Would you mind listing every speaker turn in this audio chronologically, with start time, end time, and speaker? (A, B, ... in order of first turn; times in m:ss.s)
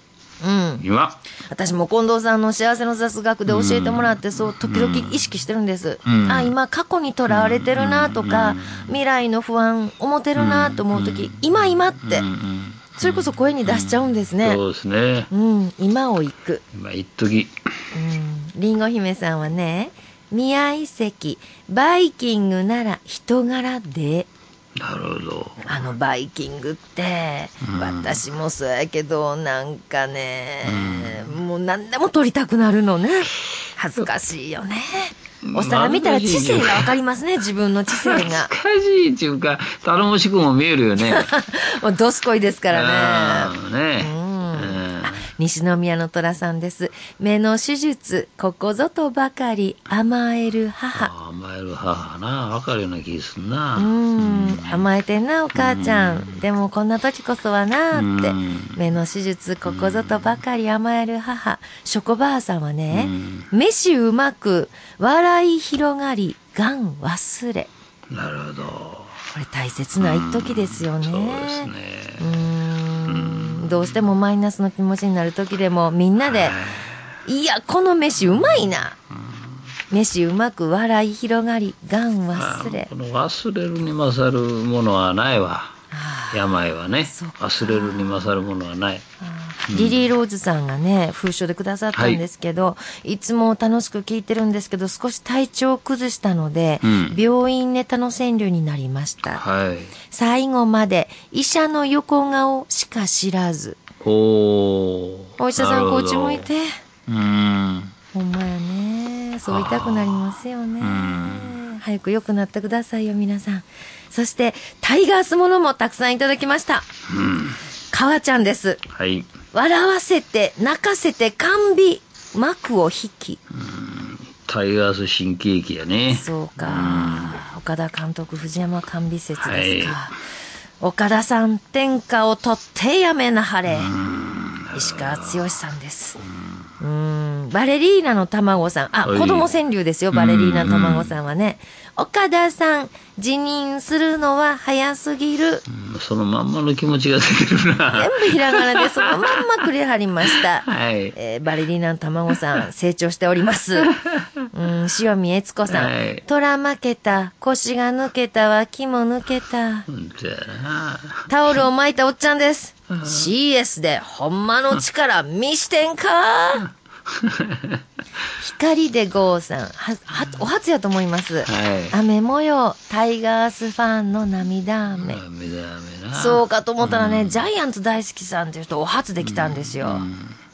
0:00.4-0:00.9 A
0:00.8-0:01.2 B
0:01.5-0:12.2 A
0:03.5-0:05.3 B
0:06.0-0:06.5 B
0:07.3-0:09.0 B
0:10.4-0:15.3 B
0:13.0-0:14.6 A
0:15.3-0:16.6 A
0:16.7-0:17.5 B
0:17.9-0:24.3 A
0:24.8-0:25.7 B
0:25.7-0:38.5 A
0:27.6-0:28.2 B
0:30.7-0:31.4 B
0:35.5-0:37.0 B
0:37.9-0:41.3 B
0:41.0-0:51.1 A
0:42.7-0:45.2 B
0:50.9-0:54.8 B
0:53.8-1:07.7 A
0:55.5-0:56.4 B
0:57.9-0:58.8 B
0:59.6-1:00.3 B
1:02.9-1:03.5 B
1:08.1-1:09.2 B
1:09.3-1:16.6 A
1:10.0-1:12.5 B
1:13.1-1:14.1 B
1:16.2-1:17.2 B
1:17.3-1:19.0 A
1:18.3-1:18.7 B
1:19.2-1:19.6 B
1:19.9-1:22.9 A
1:22.3-1:25.7 B
1:25.9-1:28.4 A
1:26.3-1:29.0 B
1:29.2-1:39.4 A
1:29.7-1:30.1 B
1:31.9-1:32.2 B
1:36.8-1:37.2 B
1:39.4-1:40.0 B
1:40.1-1:43.8 A
1:44.0-1:46.5 B
1:45.4-1:46.7 A
1:47.1-1:47.9 B
1:48.1-1:56.9 A
1:49.5-1:50.2 B
1:50.8-1:51.6 B
1:57.1-1:57.6 B
1:57.9-1:58.8 A
1:58.9-1:59.3 B
1:59.5-2:03.4 A
2:03.5-2:07.4 B
2:06.1-2:10.2 A
2:09.4-2:10.0 B
2:10.8-2:13.9 A
2:13.7-2:15.4 B
2:14.7-2:16.2 A
2:16.8-2:25.6 A
2:19.0-2:19.5 B
2:20.1-2:21.1 B
2:25.7-2:29.4 B
2:27.9-2:34.0 A
2:30.3-2:31.2 B
2:34.5-2:39.9 A
2:35.7-2:36.2 B
2:39.9-2:41.3 B
2:41.3-2:46.7 A
2:42.9-2:43.3 B
2:47.1-2:47.8 B
2:48.4-2:55.2 A
2:51.4-2:52.0 B
2:55.0-2:57.4 B
2:56.1-3:00.0 A
2:59.2-3:00.4 B